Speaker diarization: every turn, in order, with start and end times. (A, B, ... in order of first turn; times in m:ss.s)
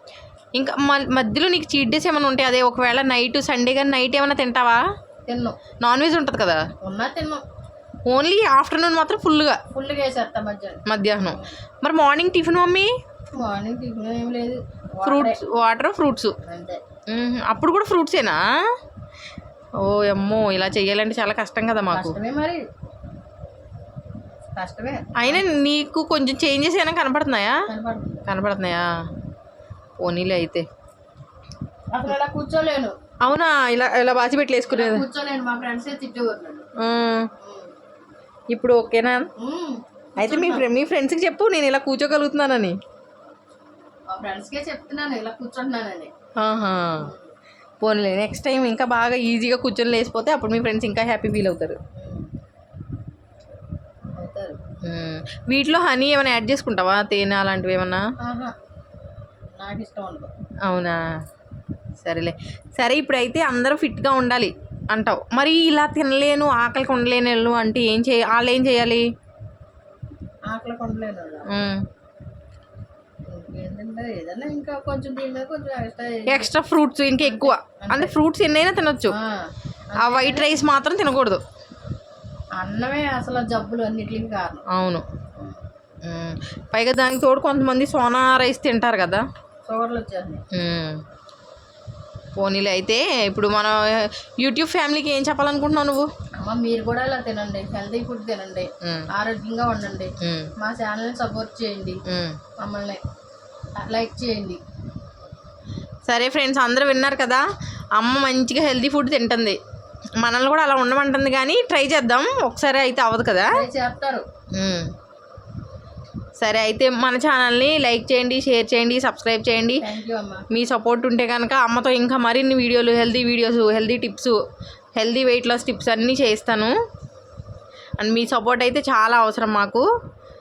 0:00.6-0:04.8 A
0:05.3-0:05.6 B
0:05.8-0:06.6 A
0:06.8-0:07.4 B
0:08.1-0:09.6 A
0:09.7-0:11.6 B
0:10.9-0:12.9 A
0:13.3-0:15.4 B
0:15.0-0:16.4 A
0:16.4-0:16.8 B
0:17.1-0:18.4 A
0:19.8-0:22.2 A
0:21.9-0:22.6 B
0:24.6-0:25.4 B
0:25.2-0:27.6 A
0:27.7-0:28.3 B
0:28.3-0:28.9 A
0:30.0-0:30.7 A
0:31.9-0:33.0 B
0:33.2-0:35.0 A
0:34.7-0:36.7 B
0:36.8-0:37.3 A
0:37.4-0:37.7 B
0:38.5-0:39.3 A
0:39.4-0:40.7 B
0:40.2-0:42.8 A
0:44.1-0:46.1 B
0:46.4-0:47.0 A
0:47.0-0:47.3 B
0:47.8-0:51.8 A
0:52.0-0:52.3 B
0:54.2-0:54.6 B
0:54.8-0:58.0 A
0:58.2-0:58.5 B
0:59.6-1:00.3 B
1:00.7-1:01.0 A
1:02.0-1:09.0 A
1:10.5-1:11.5 B
1:11.5-1:11.8 A
1:13.3-1:16.5 B
1:16.3-1:19.2 A
1:17.2-1:18.1 B
1:19.1-1:20.6 B
1:20.0-1:21.4 A
1:22.6-1:24.6 B
1:24.7-1:25.1 A
1:26.1-1:29.2 A
1:29.7-1:30.4 B
1:30.5-1:31.0 A
1:32.4-1:36.1 A
1:36.4-1:42.0 B
1:40.2-1:40.5 A
1:42.1-1:42.4 A
1:42.6-1:43.0 B
1:43.8-1:44.6 B
1:46.1-1:47.4 A
1:48.0-1:49.6 A
1:50.2-1:53.6 A
1:53.5-1:54.2 B
1:54.6-1:54.9 A
1:56.4-1:59.8 A
1:59.8-2:00.4 B
2:00.5-2:04.4 A
2:05.0-2:06.7 A
2:08.0-2:09.8 A